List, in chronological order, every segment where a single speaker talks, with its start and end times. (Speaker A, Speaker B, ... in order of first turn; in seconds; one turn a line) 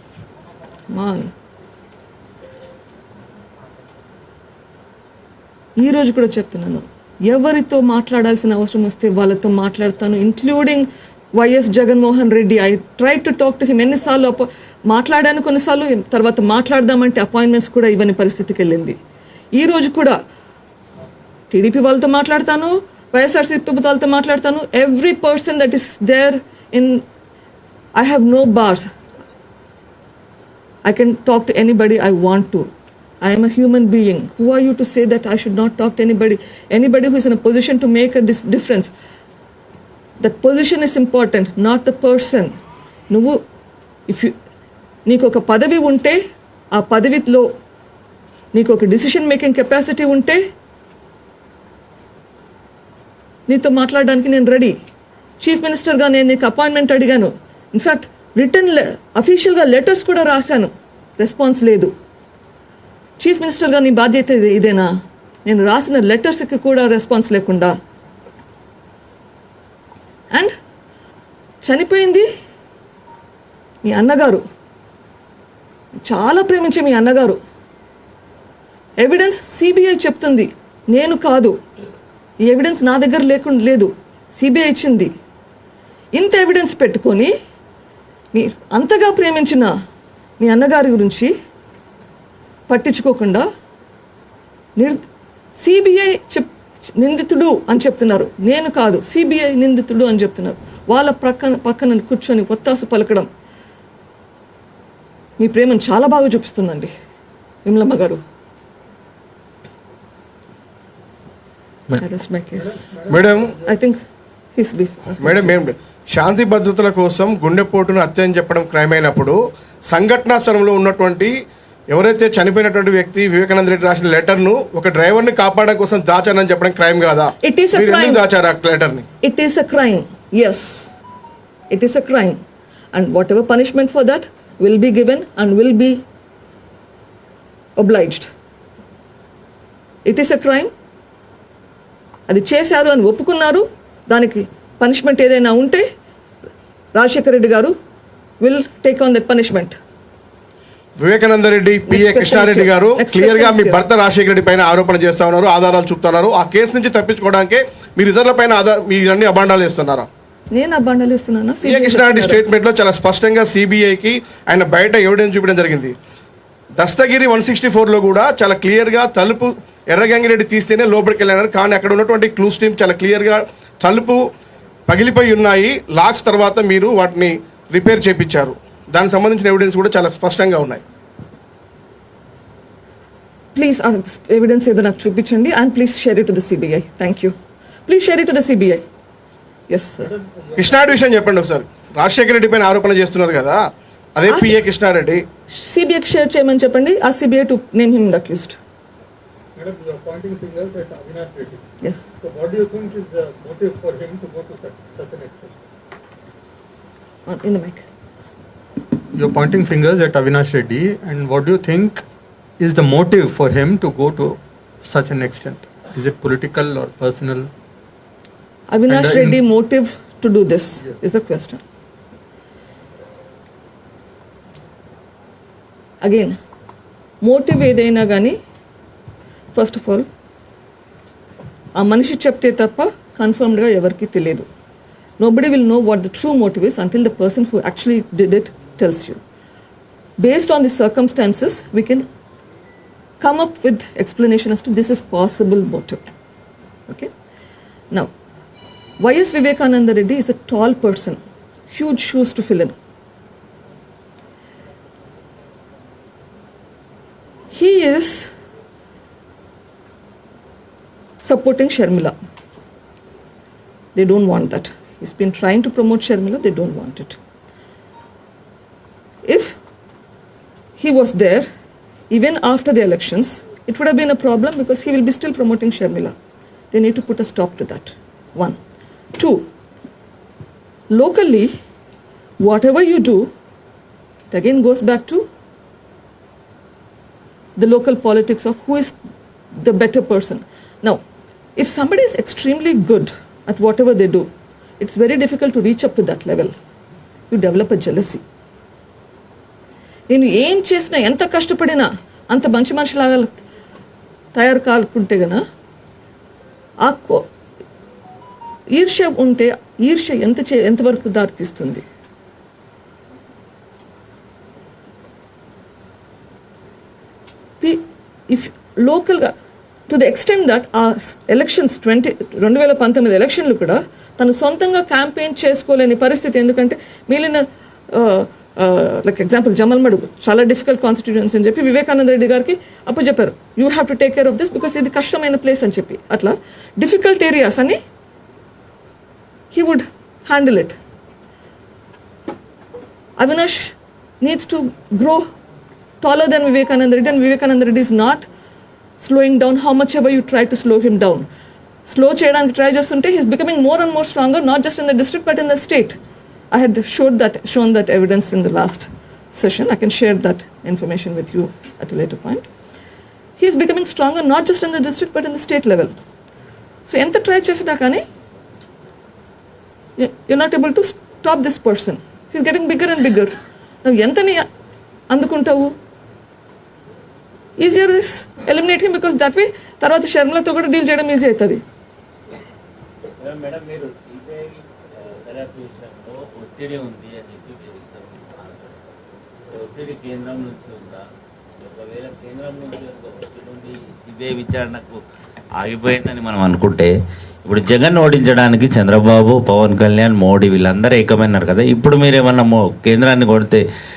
Speaker A: 0.9-1.3
Speaker A: 5.8-19.0
Speaker A: 19.6-20.2
Speaker A: 21.5-27.0
Speaker A: 28.0-28.9
Speaker A: 30.9-32.7
Speaker A: 33.2-38.9
Speaker A: 40.2-42.5
Speaker A: 43.1-43.4
Speaker A: 44.1-44.4
Speaker A: 45.1-46.2
Speaker A: 46.7-47.5
Speaker A: 48.5-50.4
Speaker A: 53.5-54.8
Speaker A: 55.4-61.9
Speaker A: 63.2-64.9
Speaker A: 65.5-67.7
Speaker A: 71.6-72.3
Speaker A: 73.8-74.4
Speaker A: 76.0-77.4
Speaker A: 79.0-81.5
Speaker A: 82.4-85.1
Speaker A: 86.1-87.3
Speaker A: 88.3-89.7
Speaker A: 90.4-91.3
Speaker A: 92.7-93.5
Speaker A: 95.6-103.3
Speaker A: 105.4-106.9
Speaker A: 107.7-108.2
Speaker A: 111.9-112.9
Speaker B: 113.1-113.5
Speaker A: 113.7-114.0
Speaker A: 114.6-115.5
Speaker B: 115.2-121.3
Speaker B: 121.9-129.1
Speaker A: 127.4-128.2
Speaker A: 129.2-130.9
Speaker A: 131.7-132.4
Speaker A: 132.9-136.0
Speaker A: 137.8-138.3
Speaker A: 140.1-140.7
Speaker A: 142.3-145.8
Speaker A: 146.9-147.7
Speaker A: 148.4-149.7
Speaker B: 151.0-160.1
Speaker A: 151.9-153.8
Speaker A: 160.5-162.4
Speaker B: 161.6-165.9
Speaker B: 166.8-174.2
Speaker B: 174.9-180.8
Speaker A: 183.6-187.3
Speaker A: 187.9-188.8
Speaker A: 189.7-190.1
Speaker C: 190.0-191.0
Speaker B: 190.6-193.7
Speaker B: 194.2-195.2
Speaker A: 194.3-194.6
Speaker A: 195.5-198.6
Speaker C: 199.6-205.6
Speaker A: 207.3-207.8
Speaker C: 209.1-212.0
Speaker C: 212.6-217.5
Speaker A: 218.7-221.6
Speaker C: 218.9-219.4
Speaker A: 226.0-226.3
Speaker A: 227.2-228.4
Speaker A: 229.5-230.1
Speaker A: 231.8-234.5
Speaker A: 235.2-239.2
Speaker A: 240.2-242.1
Speaker A: 243.2-246.0
Speaker A: 249.0-251.2
Speaker A: 251.7-252.8
Speaker A: 257.5-258.3
Speaker A: 261.2-262.1
Speaker A: 263.9-267.2
Speaker A: 269.3-269.6
Speaker A: 270.8-271.5
Speaker A: 272.1-276.1
Speaker A: 276.7-278.6
Speaker A: 279.2-279.5
Speaker A: 280.9-281.5
Speaker A: 282.4-283.3
Speaker A: 284.3-285.2
Speaker A: 287.6-288.9
Speaker A: 289.6-291.0
Speaker A: 291.6-294.3
Speaker A: 294.8-296.5
Speaker A: 297.3-298.2
Speaker A: 300.1-303.3
Speaker A: 304.4-305.4
Speaker A: 306.8-307.2
Speaker A: 308.7-311.8
Speaker A: 317.6-319.3
Speaker A: 319.9-337.8
Speaker A: 339.5-340.8
Speaker A: 343.2-345.2
Speaker A: 346.0-348.2
Speaker A: 349.0-351.3
Speaker A: 351.9-356.0
Speaker A: 356.5-362.5
Speaker A: 363.4-366.0
Speaker A: 366.9-368.0
Speaker A: 370.0-374.5
Speaker A: 375.1-375.7
Speaker A: 377.6-381.6
Speaker D: 383.2-388.8
Speaker D: 389.5-391.1
Speaker D: 391.6-395.0
Speaker D: 395.6-396.9
Speaker D: 397.4-403.6